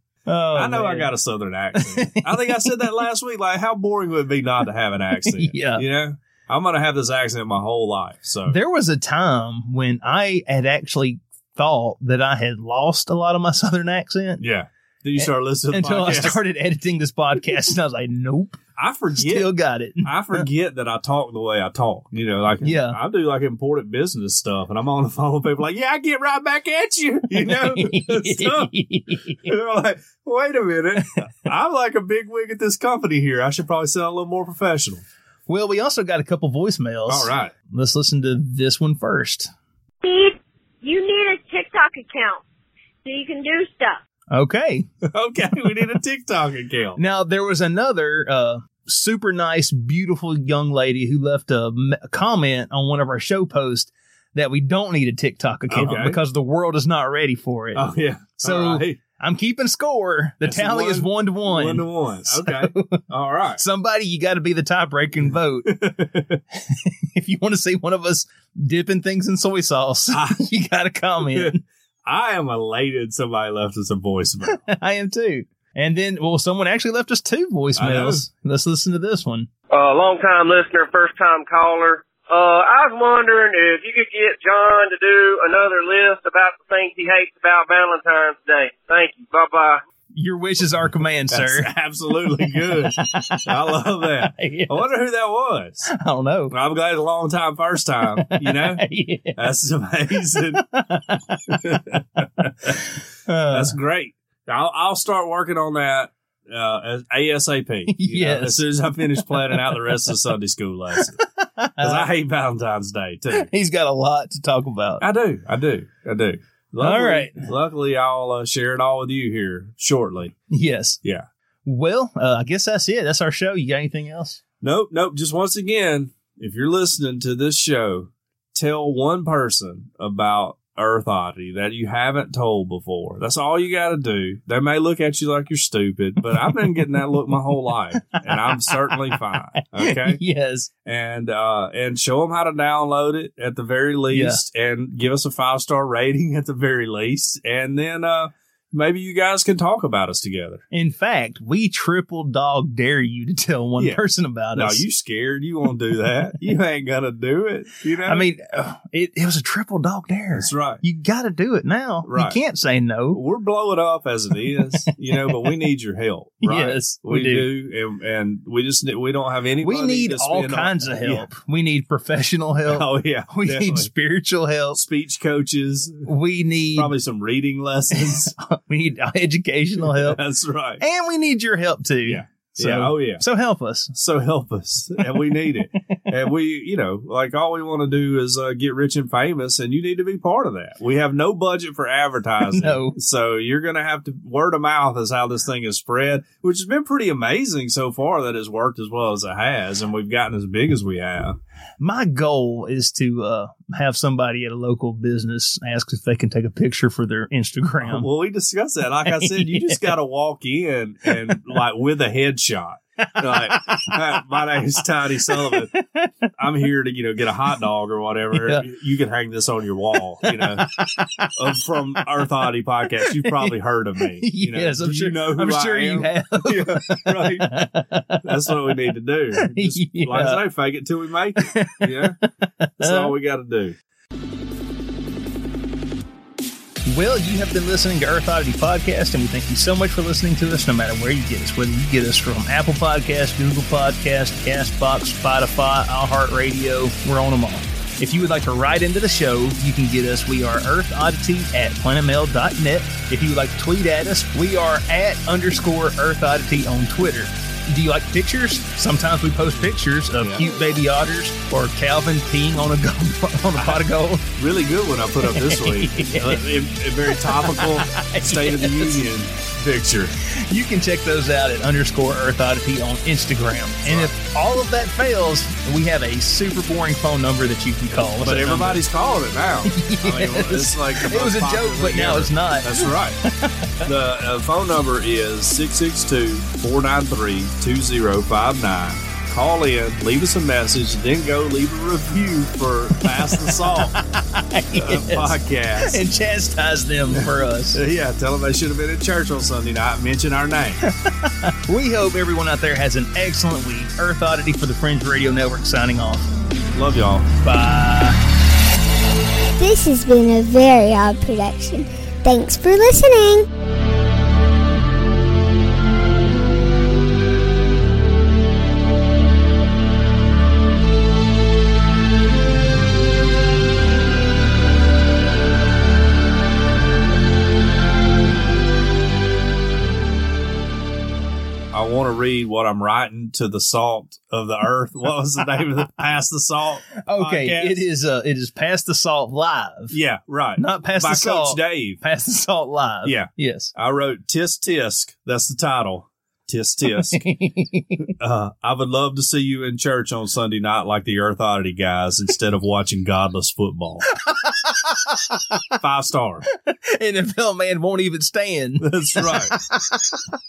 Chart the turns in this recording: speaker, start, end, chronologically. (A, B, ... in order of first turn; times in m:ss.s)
0:00.3-0:01.1 A
0:00.6-0:08.6 B
0:01.8-0:03.0 A
0:05.3-0:05.8 A
0:08.5-0:14.4 A
0:14.4-0:16.4 B
0:15.2-0:18.6 A
0:18.8-0:19.5 B
0:19.2-0:20.4 A
0:20.0-0:28.7 B
0:22.6-0:23.0 A
0:27.3-0:29.6 A
0:29.4-0:35.0 B
0:35.5-0:39.5 A
0:37.1-0:37.5 B
0:40.0-0:42.4 C
0:43.0-0:44.0 C
0:44.3-0:44.9 A
0:45.1-0:47.0 B
0:47.0-0:57.9 A
0:55.7-0:56.2 B
0:57.7-0:59.0 B
0:58.4-1:03.0 A
1:00.4-1:03.6 B
1:03.6-1:05.9 A
1:05.6-1:06.4 B
1:06.6-1:11.6 A
1:10.1-1:10.4 B
1:12.1-1:14.6 B
1:14.5-1:19.5 A
1:17.8-1:18.3 B
1:19.7-1:29.8 D
1:30.1-1:31.7 A
1:31.3-1:35.9 B
1:32.3-1:33.5 A
1:34.2-1:34.9 A
1:35.9-1:36.5 A
1:36.5-1:40.6 B
1:38.2-1:39.4 A
1:40.5-1:41.4 A
1:41.5-1:42.9 B
1:43.3-1:43.8 A
1:43.5-1:51.2 B
1:47.9-1:48.6 A
1:49.3-1:50.1 A
1:51.0-1:52.1 A
1:51.8-1:53.5 B
1:53.3-1:55.0 A
1:55.0-2:00.4 B
1:56.8-1:57.5 A
2:00.5-2:01.0 A
2:01.6-2:04.4 A
2:04.6-2:20.2 B
2:16.3-2:17.3 A
2:18.0-2:20.7 A
2:20.8-2:30.6 B
2:24.1-2:24.4 A
2:30.7-2:34.8 A
2:33.8-2:34.0 B
2:34.5-2:38.2 B
2:38.1-2:43.2 A
2:40.4-2:40.8 B
2:42.0-2:42.4 B
2:43.1-2:51.3 B
2:44.5-2:45.5 A
2:46.4-2:47.5 A
2:49.6-2:54.8 A
2:52.7-2:53.9 B
2:54.7-2:56.1 B
2:56.0-2:56.9 A
2:56.7-2:58.3 B
2:57.9-3:00.2 A
2:59.8-3:00.8 B
3:00.8-3:03.9 A
3:02.0-3:03.2 B
3:03.9-3:21.4 B
3:05.0-3:05.5 A
3:12.5-3:13.0 A
3:21.8-3:28.1 A
3:27.8-3:35.7 B
3:29.1-3:29.9 A
3:31.1-3:31.4 A
3:33.2-3:34.0 A
3:35.3-3:36.3 A
3:36.4-3:47.7 B
3:38.3-3:38.7 A
3:40.2-3:41.4 A
3:43.1-3:43.5 A
3:44.2-3:48.5 A
3:48.2-3:52.2 B
3:49.4-3:50.4 A
3:51.4-3:53.1 A
3:52.8-3:53.8 B
3:56.8-4:24.3 A
4:24.4-4:30.2 B
4:25.2-4:26.5 A
4:27.1-4:29.1 A
4:30.2-4:38.8 A
4:33.8-4:34.2 B
4:38.2-4:43.2 B
4:39.7-4:43.9 A
4:43.8-4:54.0 B
4:53.1-4:57.8 A
4:54.8-4:56.0 B
4:57.2-5:00.8 B
5:00.8-5:06.3 A
5:06.7-5:07.3 B
5:07.4-5:08.2 A
5:09.6-5:13.5 E
5:31.7-5:37.8 B
5:37.0-5:40.0 A
5:39.9-5:42.0 B
5:40.6-5:43.7 A
5:43.0-5:47.2 B
5:46.9-5:48.1 A
5:48.2-5:54.1 B
5:54.2-5:55.4 A
5:55.8-5:56.5 B
5:56.5-6:00.2 A
5:58.8-5:59.6 B